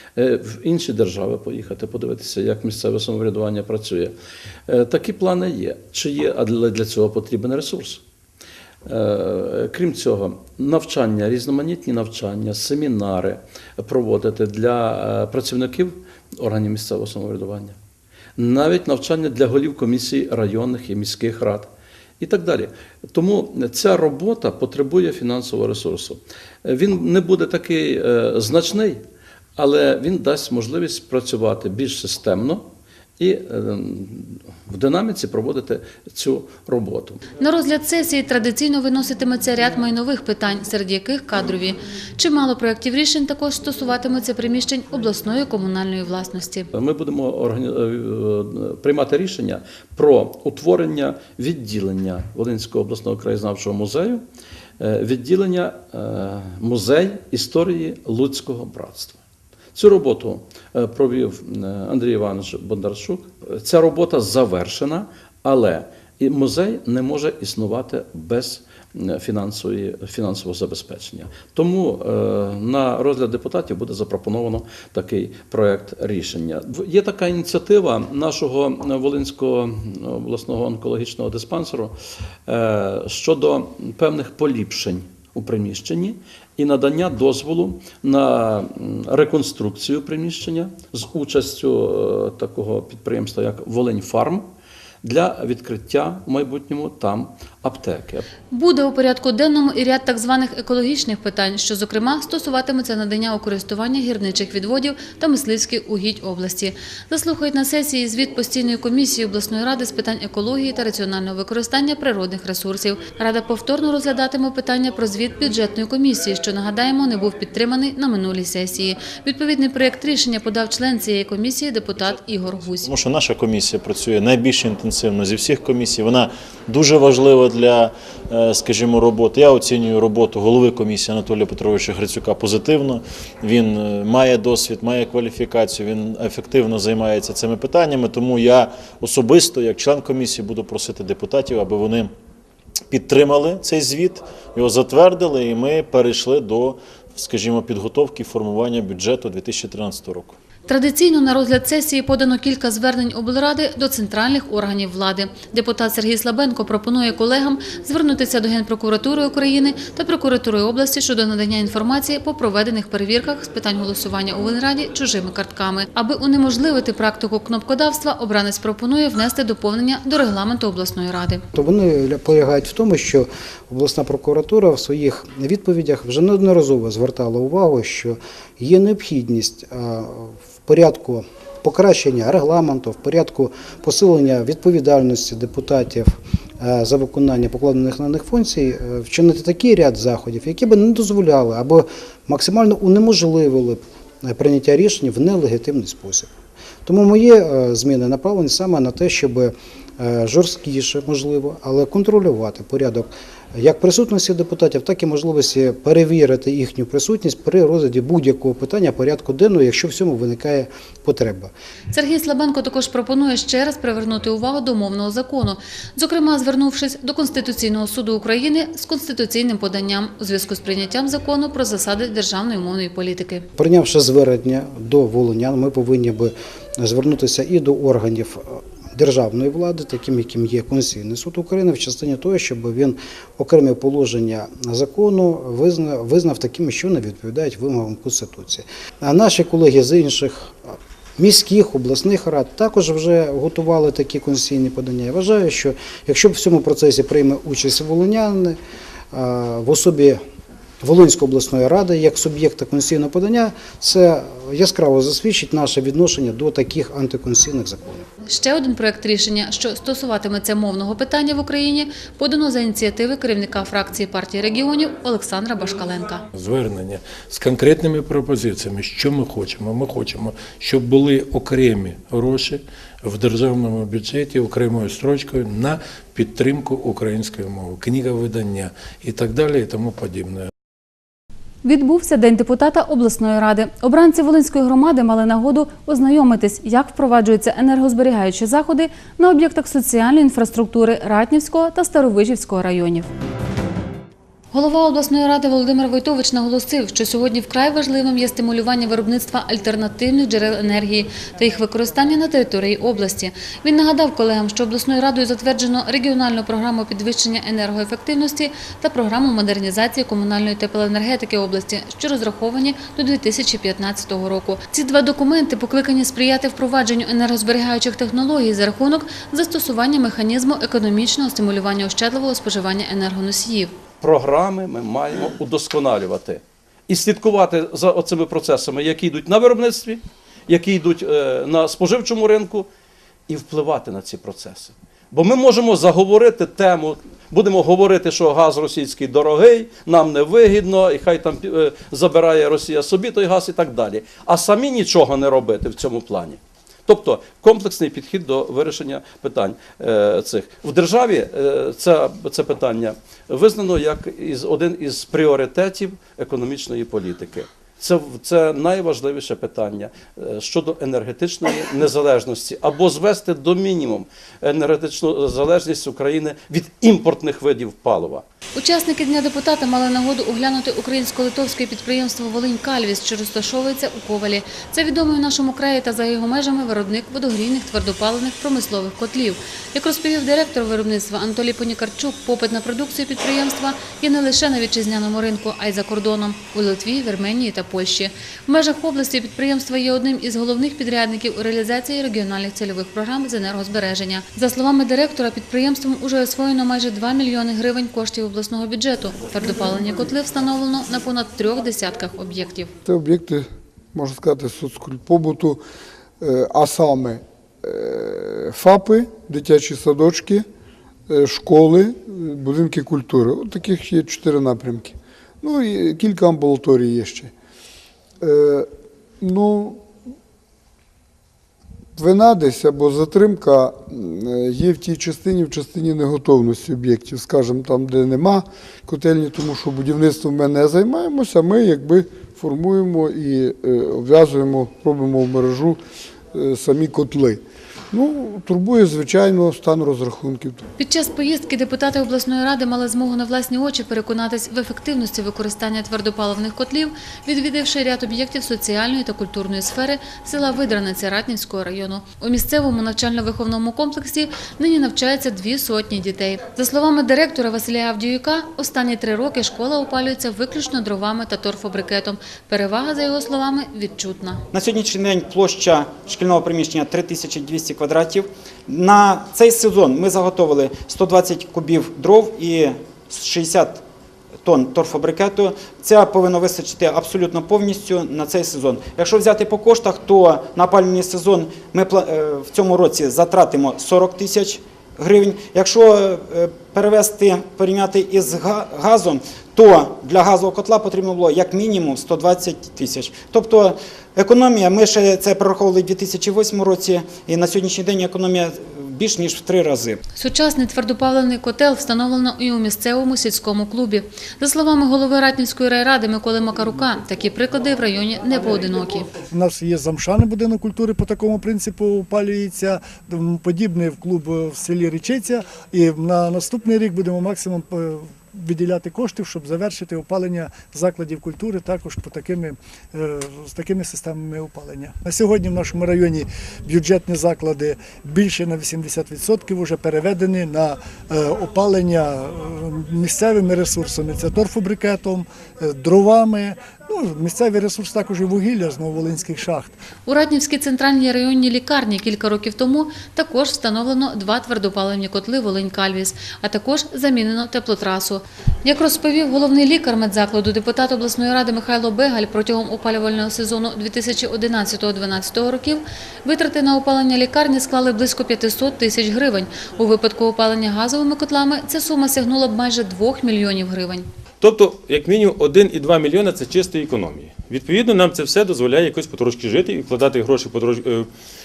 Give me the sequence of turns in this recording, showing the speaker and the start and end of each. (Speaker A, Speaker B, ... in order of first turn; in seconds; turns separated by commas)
Speaker A: 0.2-4.1, Speaker A: 4.7-8.0, Speaker A: 8.9-17.8, Speaker A: 18.4-29.0, Speaker A: 29.6-32.7, Speaker A: 33.2-37.2, Speaker B: 37.4-46.7, Speaker A: 46.7-54.2, Speaker A: 54.8-59.2, Speaker A: 59.8-82.0, Speaker A: 82.5-94.5, Speaker A: 95.0-98.3, Speaker B: 98.5-122.9, Speaker C: 122.8-142.1, Speaker C: 142.9-150.4, Speaker B: 150.7-171.4, Speaker D: 171.5-196.3, Speaker D: 196.8-211.5, Speaker B: 211.9-223.5, Speaker D: 223.6-248.6, Speaker D: 249.1-250.2, Speaker D: 250.8-258.1, Speaker B: 258.3-266.2, Speaker E: 266.3-280.5, Speaker B: 281.6-293.1, Speaker B: 294.5-323.8, Speaker A: 324.0-332.7, Speaker A: 333.3-368.2, Speaker B: 368.6-402.7, Speaker F: 402.9-405.6, Speaker F: 406.2-410.5, Speaker F: 411.1-417.3, Speaker F: 418.2-419.9, Speaker F: 422.0-435.8, Speaker F: 436.3-440.6, Speaker B: 440.8-464.4, Speaker G: 464.5-473.8, Speaker G: 474.4-500.0, Speaker B: 500.2-509.1, Speaker H: 509.3-539.8, Speaker B: 540.1-564.1, Speaker I: 564.4-571.1